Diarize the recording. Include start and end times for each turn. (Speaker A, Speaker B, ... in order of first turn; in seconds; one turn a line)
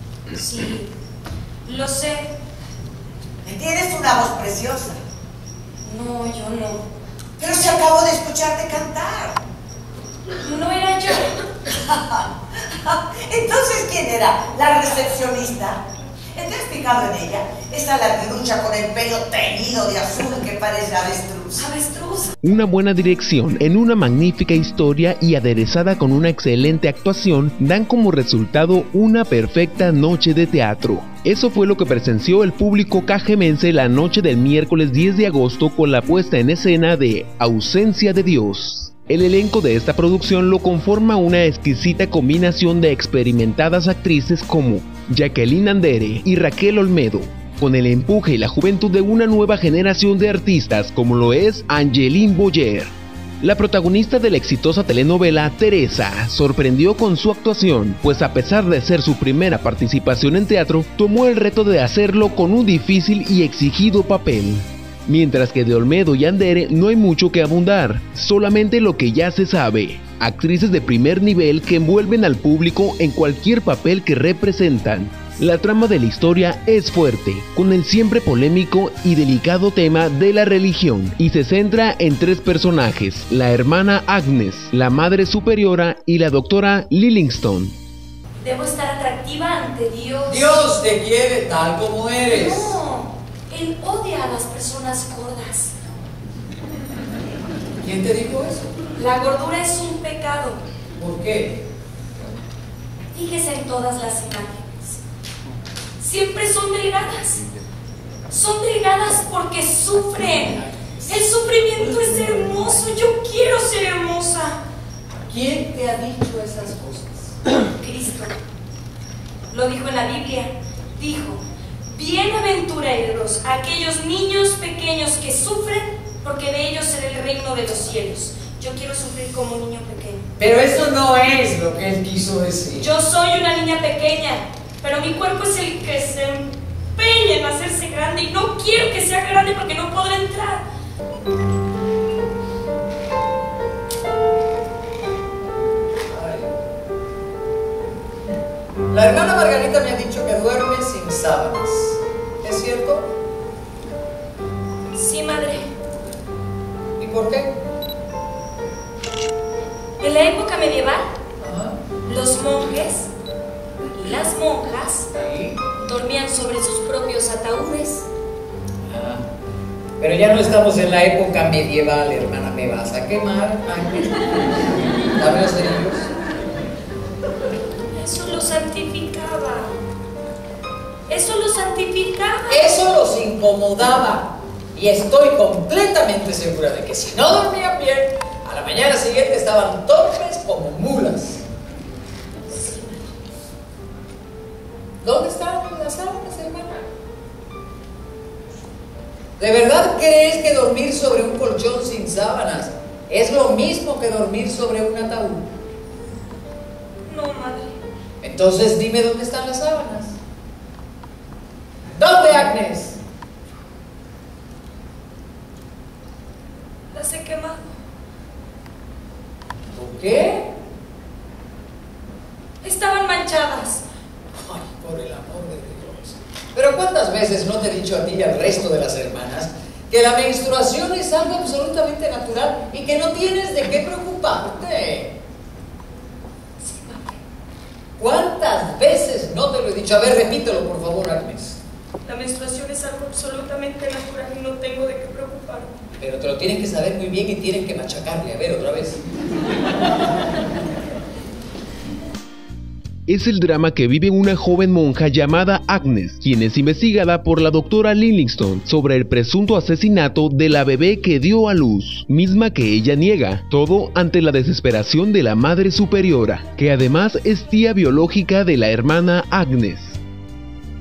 Speaker A: 0.3-0.9
Speaker A: 1.6-2.3
Speaker B: 3.4-5.0
Speaker A: 5.8-6.8
Speaker B: 7.4-9.4
Speaker A: 10.4-11.4
Speaker B: 11.7-15.8
Speaker B: 16.3-21.7
Speaker A: 21.6-22.3
Speaker C: 22.4-87.7
Speaker A: 88.4-90.7
Speaker D: 90.2-92.8
Speaker A: 92.2-95.7
Speaker D: 97.8-98.7
Speaker A: 99.0-100.6
Speaker D: 101.0-101.6
Speaker A: 103.1-105.0
Speaker A: 106.0-107.4
Speaker A: 108.3-114.6
Speaker D: 110.2-111.0
Speaker D: 115.3-117.4
Speaker A: 117.7-118.4
Speaker A: 119.5-130.2
Speaker D: 130.4-132.9
Speaker A: 132.8-140.6
Speaker D: 146.1-146.5
Speaker D: 148.9-153.1
Speaker A: 154.9-155.7
Speaker D: 157.0-157.5
Speaker A: 160.0-161.1
Speaker D: 161.4-161.8
Speaker A: 162.1-163.1
Speaker A: 163.9-165.1
Speaker D: 165.1-165.6
Speaker A: 165.8-168.0
Speaker D: 168.8-169.3
Speaker D: 170.0-176.1
Speaker A: 177.9-179.7
Speaker A: 181.1-182.8
Speaker D: 182.5-191.4
Speaker A: 192.5-193.2
Speaker D: 195.0-196.8
Speaker D: 199.4-205.5
Speaker A: 207.1-207.7
Speaker D: 208.2-210.2
Speaker D: 211.9-213.0
Speaker A: 216.9-217.7
Speaker D: 219.7-220.5
Speaker A: 222.6-223.8
Speaker D: 224.3-235.1
Speaker A: 236.6-237.2
Speaker D: 238.0-241.6
Speaker A: 242.0-245.7
Speaker D: 246.0-249.0
Speaker C: 253.1-270.0